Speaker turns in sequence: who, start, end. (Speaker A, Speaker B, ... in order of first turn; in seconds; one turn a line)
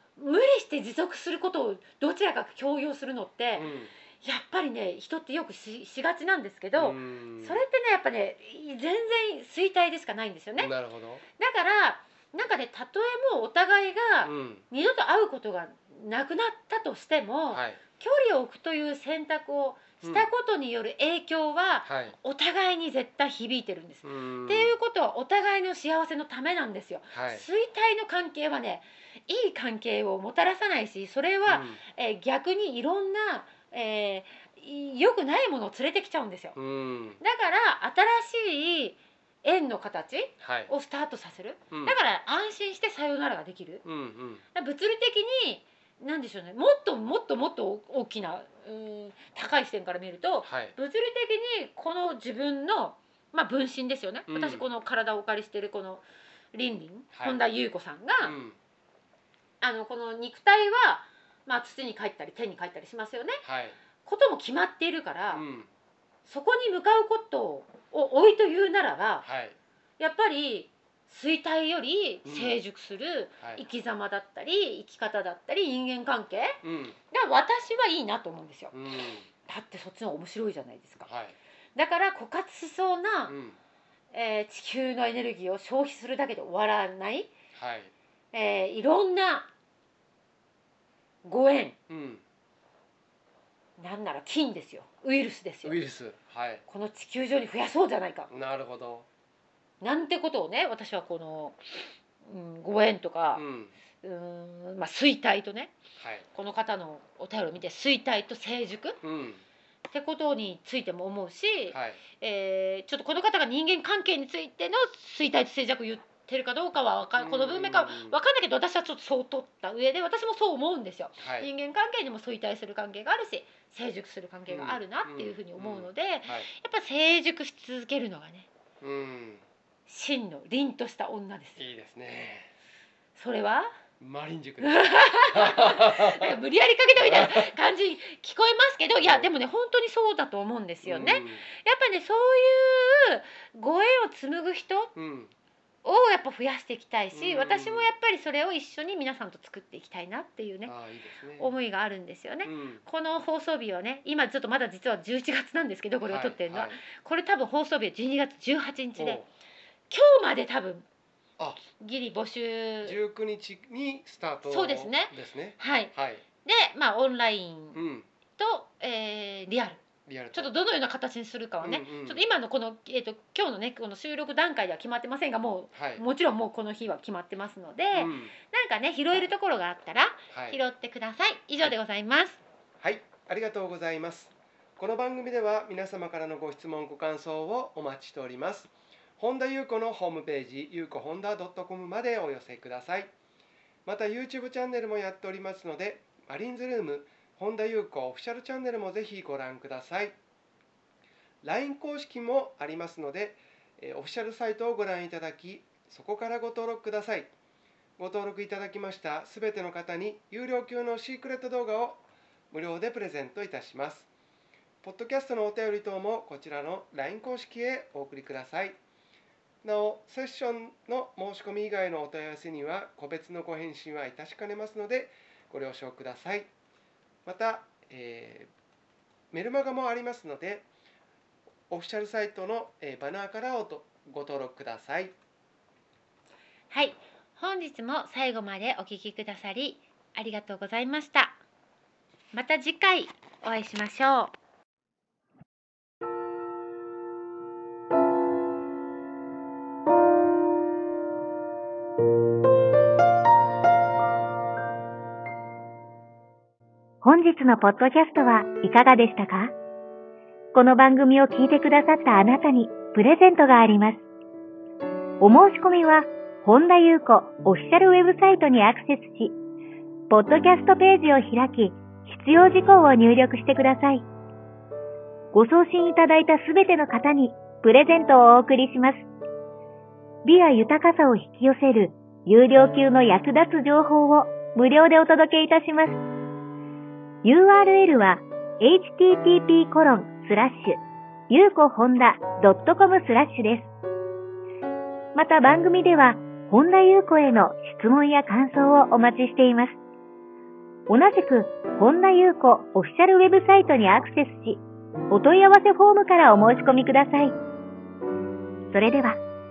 Speaker A: 0.2-10.7
Speaker B: 3.5-3.9
Speaker B: 6.8-7.6
Speaker B: 10.6-11.2
Speaker A: 11.4-36.6
Speaker B: 14.2-14.6
Speaker B: 17.5-17.8
Speaker B: 20.0-20.3
Speaker B: 21.9-22.1
Speaker B: 24.0-24.8
Speaker B: 27.1-27.4
Speaker B: 31.5-31.8
Speaker B: 36.6-37.2
Speaker A: 37.2-43.8
Speaker B: 40.4-40.7
Speaker B: 41.7-42.0
Speaker B: 43.8-44.4
Speaker A: 44.5-58.4
Speaker B: 50.4-50.8
Speaker B: 54.3-54.7
Speaker B: 57.1-57.4
Speaker B: 58.2-58.6
Speaker A: 59.6-63.4
Speaker B: 63.4-63.8
Speaker A: 64.0-65.5
Speaker B: 65.3-65.7
Speaker A: 66.2-69.2
Speaker B: 69.2-69.6
Speaker A: 70.0-76.6
Speaker B: 72.2-72.6
Speaker B: 76.6-77.0
Speaker A: 77.1-78.7
Speaker B: 78.7-79.3
Speaker A: 79.5-81.1
Speaker B: 81.0-81.4
Speaker A: 81.8-83.4
Speaker B: 83.3-83.6
Speaker A: 84.1-87.3
Speaker B: 87.5-87.9
Speaker A: 88.3-89.5
Speaker A: 91.2-91.8
Speaker B: 91.9-92.2
Speaker A: 93.8-95.8
Speaker B: 95.6-96.6
Speaker A: 96.7-98.3
Speaker B: 98.3-99.1
Speaker A: 99.8-103.4
Speaker B: 103.3-103.7
Speaker A: 104.0-105.8
Speaker B: 106.0-106.2
Speaker A: 106.3-109.0
Speaker B: 109.0-109.4
Speaker A: 109.9-128.5
Speaker B: 111.7-112.0
Speaker B: 117.2-118.2
Speaker B: 121.2-121.5
Speaker B: 124.5-126.5
Speaker B: 128.8-129.4
Speaker A: 129.9-131.6
Speaker B: 131.6-132.5
Speaker A: 133.1-133.7
Speaker B: 134.0-136.4
Speaker A: 134.6-144.9
Speaker B: 137.0-137.5
Speaker B: 139.0-139.3
Speaker B: 140.8-141.4
Speaker B: 144.9-145.3
Speaker A: 145.8-150.7
Speaker B: 147.1-147.9
Speaker B: 150.6-151.6
Speaker A: 151.4-159.2
Speaker B: 152.4-152.8
Speaker B: 156.1-156.8
Speaker B: 159.0-159.3
Speaker A: 159.9-160.9
Speaker A: 161.7-163.0
Speaker B: 162.8-166.2
Speaker A: 164.4-165.9
Speaker A: 166.4-167.8
Speaker B: 167.7-168.1
Speaker A: 168.4-182.4
Speaker B: 170.1-170.5
Speaker B: 171.6-172.2
Speaker B: 175.7-176.0
Speaker B: 177.9-178.3
Speaker B: 180.3-180.6
Speaker B: 182.8-193.1
Speaker B: 193.9-200.1
Speaker B: 201.4-207.3
Speaker B: 208.0-214.1
Speaker B: 214.8-218.8
Speaker B: 219.6-226.5
Speaker B: 227.2-228.5
Speaker B: 229.3-230.7
Speaker B: 231.7-235.1
Speaker A: 236.7-241.4
Speaker A: 242.3-244.3
Speaker C: 257.0-259.5
Speaker C: 260.5-264.0
Speaker C: 265.2-269.4
Speaker C: 270.1-274.1
Speaker C: 275.3-279.1
Speaker C: 280.2-286.0
Speaker C: 287.2-290.8
Speaker C: 291.3-293.7
Speaker C: 295.1-299.8
Speaker C: 300.9-307.4
Speaker C: 308.7-309.2